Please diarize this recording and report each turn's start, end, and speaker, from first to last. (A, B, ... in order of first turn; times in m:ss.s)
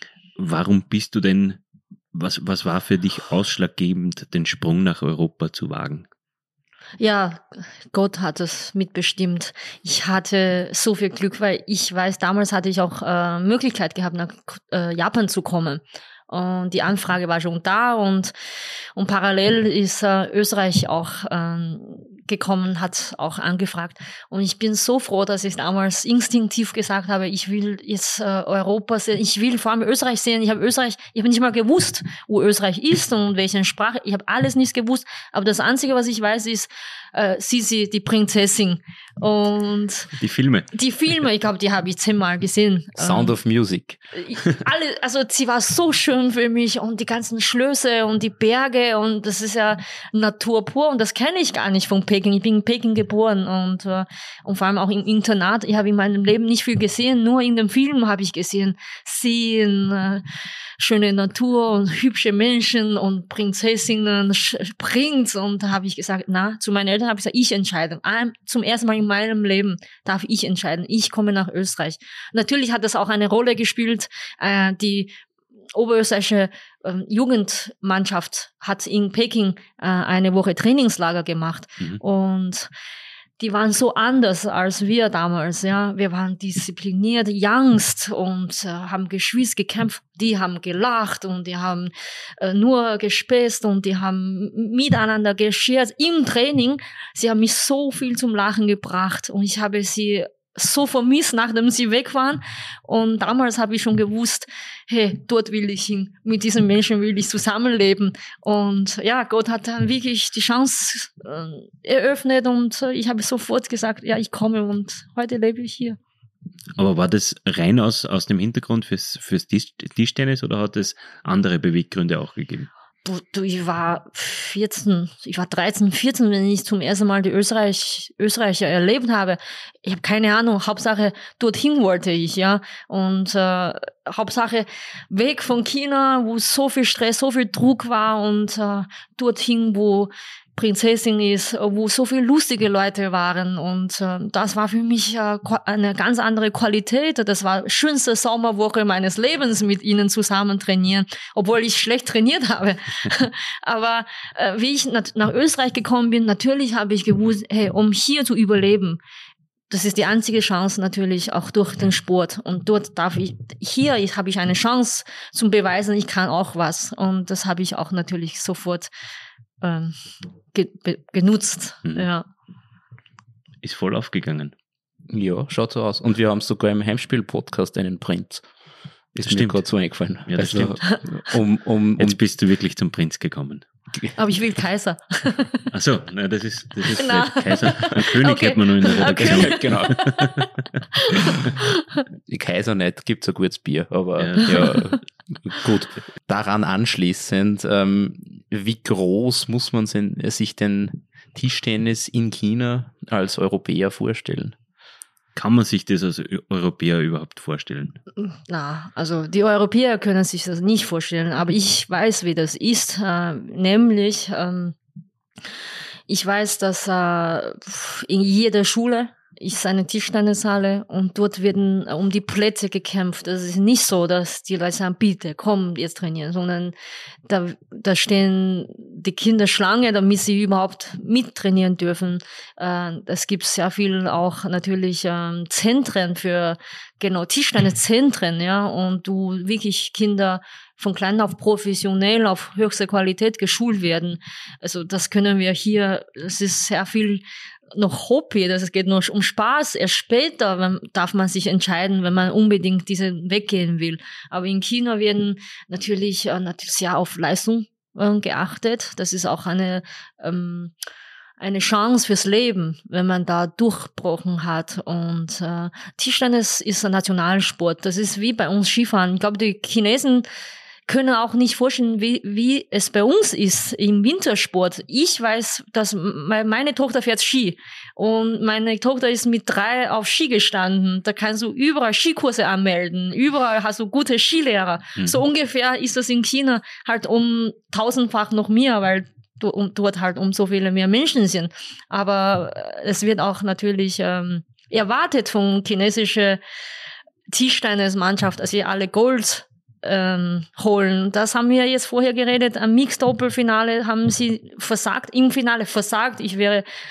0:00.4-0:01.6 A
0:02.1-0:06.1 A
0:07.0-0:18.3 B
0:19.0-0:40.1 B
0:40.2-0:40.7 A
0:40.7-0:43.3 B
0:43.0-0:44.0 C
0:44.1-1:00.2 B
1:00.8-1:15.1 B
1:15.7-1:22.7 B
1:23.4-1:56.0 B
1:56.8-2:02.7 A
2:03.0-2:39.0 B
2:39.7-2:48.9 B
2:49.6-2:50.0 B
2:50.5-2:52.2 B
2:53.6-2:54.5 A
2:55.1-2:58.4 C
2:59.1-2:59.6 A
2:59.2-3:02.2 C
3:00.3-3:00.8 A
3:02.0-3:03.6 A
3:04.2-3:05.7 B
3:05.7-3:10.3 A
3:06.9-3:11.7 B
3:09.0-3:10.2 C
3:12.3-3:24.5 C
3:14.2-3:14.8 A
3:14.7-3:15.0 B
3:25.4-3:28.0 A
3:28.2-3:34.7 B
3:36.1-3:46.7 B
3:47.2-4:20.7 B
4:21.4-4:30.2 B
4:30.9-4:56.4 B
4:57.3-5:06.6 B